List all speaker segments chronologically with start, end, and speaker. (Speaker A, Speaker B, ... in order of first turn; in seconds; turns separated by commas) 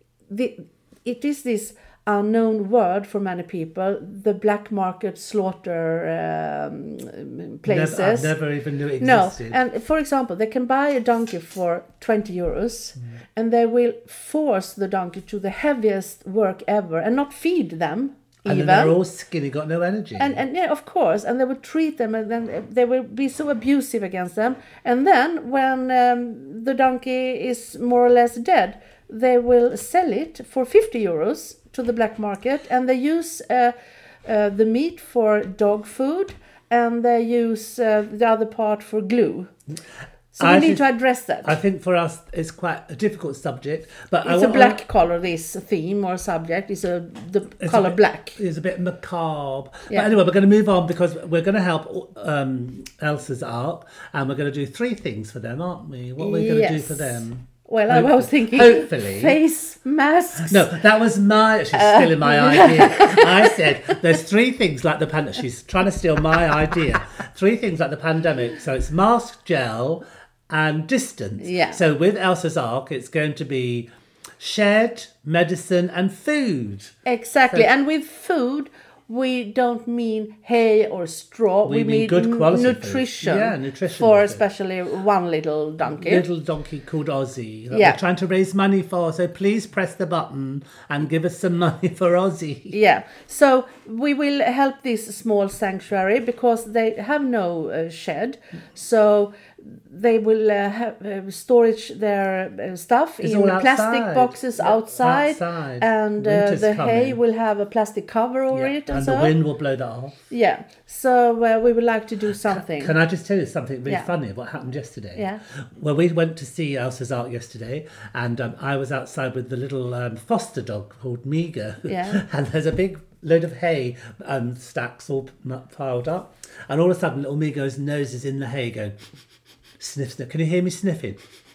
Speaker A: 0.3-8.4, Speaker B: 7.6-9.6, Speaker A: 9.0-19.0, Speaker B: 18.5-20.4, Speaker A: 20.2-39.5, Speaker A: 40.4-41.5, Speaker B: 40.4-40.9, Speaker B: 41.4-44.8, Speaker A: 44.2-48.4, Speaker B: 47.6-59.4, Speaker A: 56.2-60.7, Speaker B: 60.4-73.9, Speaker A: 61.7-64.0, Speaker A: 71.4-71.8, Speaker B: 74.4-77.0, Speaker A: 77.0-86.2, Speaker B: 81.7-84.4, Speaker B: 85.8-92.8, Speaker A: 87.7-88.0, Speaker A: 92.7-109.3, Speaker B: 103.2-107.2, Speaker B: 108.5-110.2, Speaker A: 110.3-112.9, Speaker B: 112.4-128.9, Speaker A: 121.9-122.2, Speaker B: 129.8-131.2